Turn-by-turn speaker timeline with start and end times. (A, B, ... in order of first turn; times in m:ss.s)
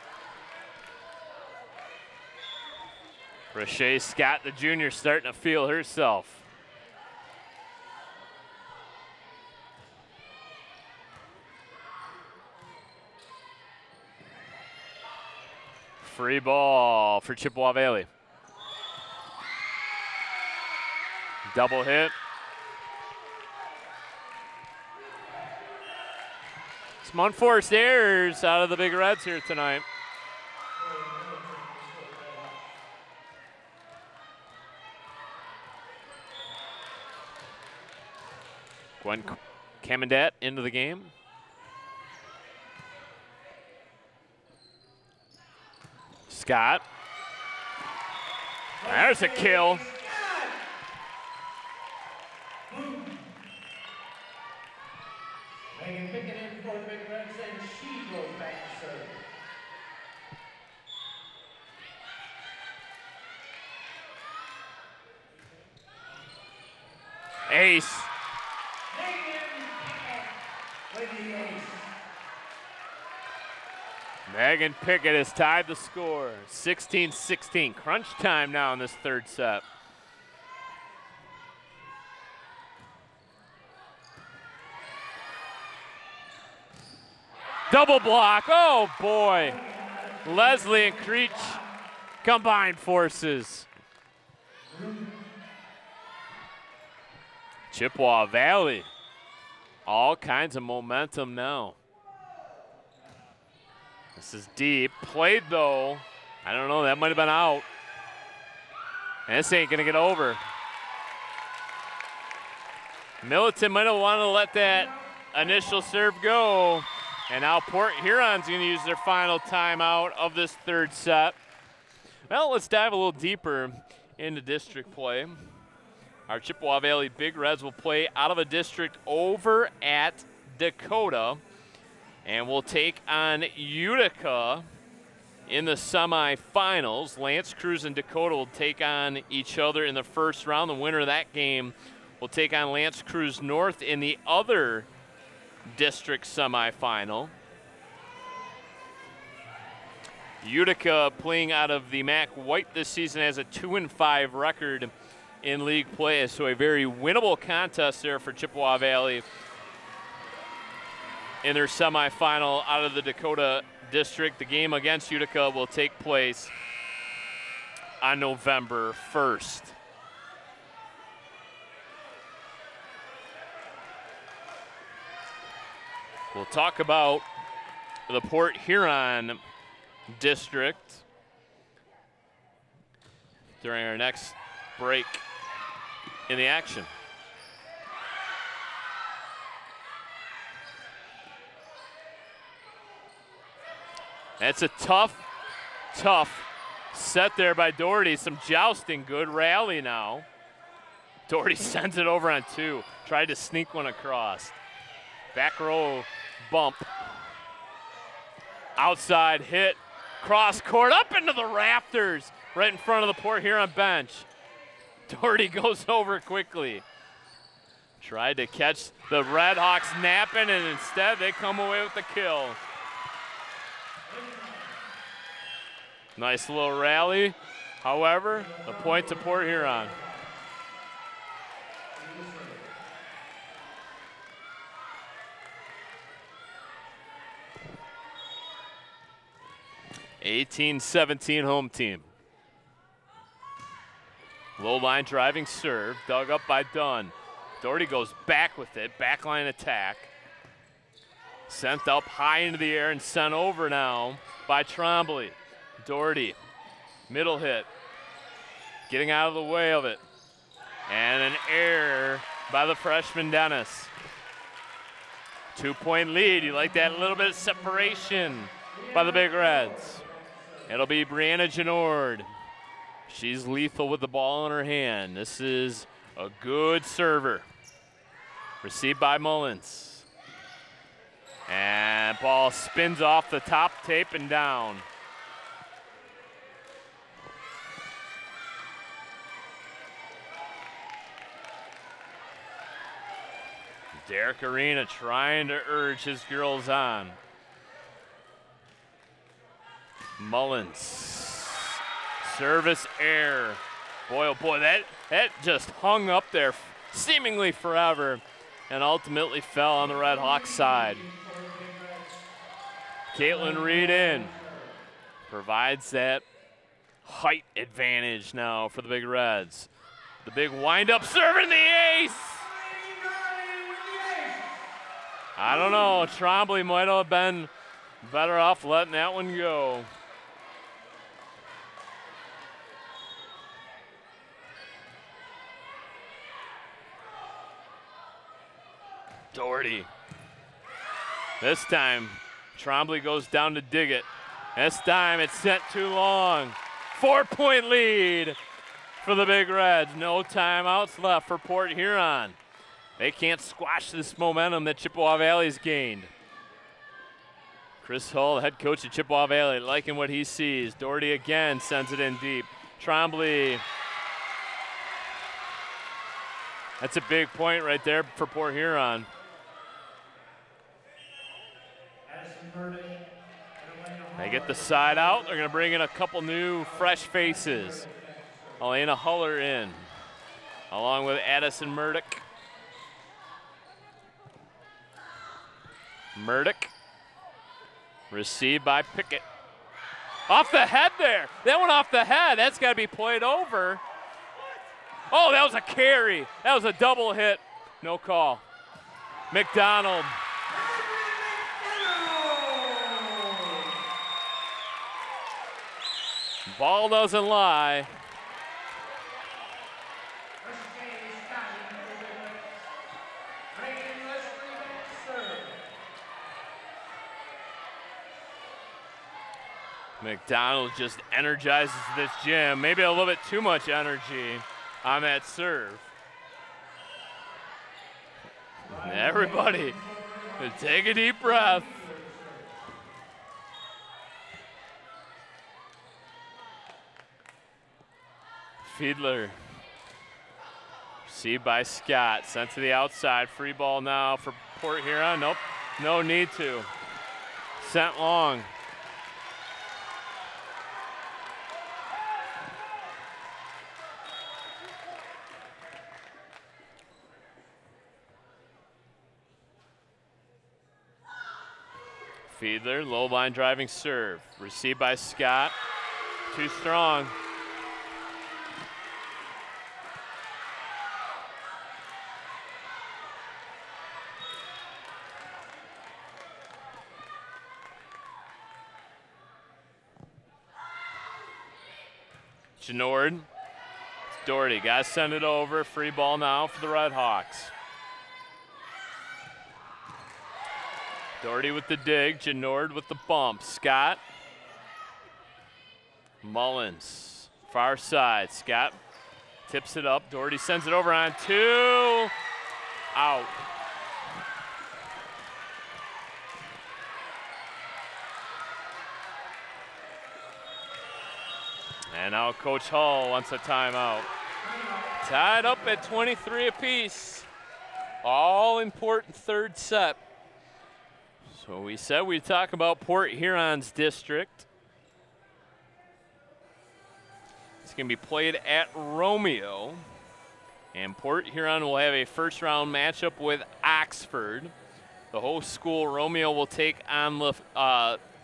0:03.5-0:06.4 A
0:16.0-0:18.1 A
0:21.5-0:22.1 A
0:27.0-0:29.8 A
0:30.8-0:32.6 B
0:39.0-0:41.1 A
0:46.3-0:46.8 A
0:48.8-0:50.6 B
0:48.9-0:49.8 A
0:52.7-0:53.2 B
0:55.7-0:59.2 B
1:07.5-1:08.1 A
1:08.9-1:10.4 B
1:10.9-1:11.9 B
1:14.3-1:19.6 A
1:27.7-1:29.6 A
1:29.3-1:31.7 B
1:30.2-1:31.6 A
1:32.2-1:33.7 A
1:34.7-1:35.2 B
1:37.7-1:38.9 A
1:39.8-1:41.8 A
1:44.2-1:47.6 A
1:49.3-1:50.4 A
1:53.2-2:01.4 A
1:54.6-1:55.9 B
2:02.3-2:05.4 A
2:06.3-2:11.4 A
2:12.2-2:14.6 A
2:15.5-2:24.9 A
2:25.7-2:27.3 A
2:30.4-2:39.2 A
2:41.4-2:46.5 A
2:48.0-2:49.7 A
2:56.3-2:57.2 A
2:58.1-2:59.4 A
3:00.1-3:01.0 A
3:03.6-3:05.2 A
3:06.3-3:06.9 A
3:14.4-3:15.2 A
3:15.9-3:20.2 A
3:21.3-3:24.6 A
3:25.3-3:27.0 A
3:28.8-3:34.3 A
3:35.1-3:36.8 A
3:38.0-3:42.6 A
3:44.0-3:44.8 B
3:46.2-3:49.9 A
3:48.3-3:50.4 B
3:51.9-3:52.7 B
4:00.2-4:02.1 A
4:04.6-4:10.1 A
4:11.5-4:16.4 A
4:17.1-4:17.7 A
4:18.9-4:20.0 A
4:20.9-4:23.9 A
4:25.5-4:30.0 A
4:26.7-4:30.8 B
4:30.7-4:32.3 A
4:33.1-4:37.5 A
4:38.6-4:40.0 A
4:41.5-4:44.8 A
4:54.0-4:57.2 A
5:00.2-5:11.0 A
5:09.8-5:12.3 B
5:13.1-5:14.4 A
5:13.1-5:14.8 B
5:15.3-5:16.2 A
5:17.0-5:19.7 A
5:20.2-5:22.5 A
5:22.5-5:24.6 B
5:25.4-5:27.5 A
5:28.0-5:29.9 A
5:39.3-5:39.9 A
5:41.4-5:48.4 A
5:49.0-5:52.4 A
5:53.0-5:56.1 A
5:57.8-6:03.6 A
6:06.8-6:09.1 A
6:12.0-6:13.0 B
6:13.6-6:15.6 B
6:14.2-6:17.8 A
6:16.6-6:18.6 B
6:18.6-6:19.9 A
6:20.7-6:22.2 A
6:26.1-6:26.7 A
6:28.1-6:29.2 A
6:30.3-6:33.8 A
6:35.1-6:38.4 A
6:39.3-6:40.2 A
6:40.5-6:43.8 B
6:46.4-6:47.9 A
6:50.4-6:52.6 B
6:53.5-6:55.7 B
7:00.0-7:05.9 A
7:08.6-7:12.5 B
7:08.7-7:09.8 A
7:10.4-7:11.7 A
7:18.6-7:19.4 A
7:21.0-7:26.7 A
7:27.6-7:28.5 A
7:42.3-7:45.6 A
7:46.3-7:47.1 A
8:02.6-8:03.3 A
8:04.1-8:07.5 A
8:11.2-8:14.0 A
8:16.2-8:18.8 A
8:19.5-8:22.1 A
8:22.9-8:23.3 A
8:31.9-8:34.1 A
8:34.4-8:35.8 B
8:35.0-8:37.3 A
8:38.0-8:40.0 A
8:41.3-8:44.4 A
8:47.6-8:49.8 A
8:50.7-8:54.5 A
8:55.1-8:58.0 A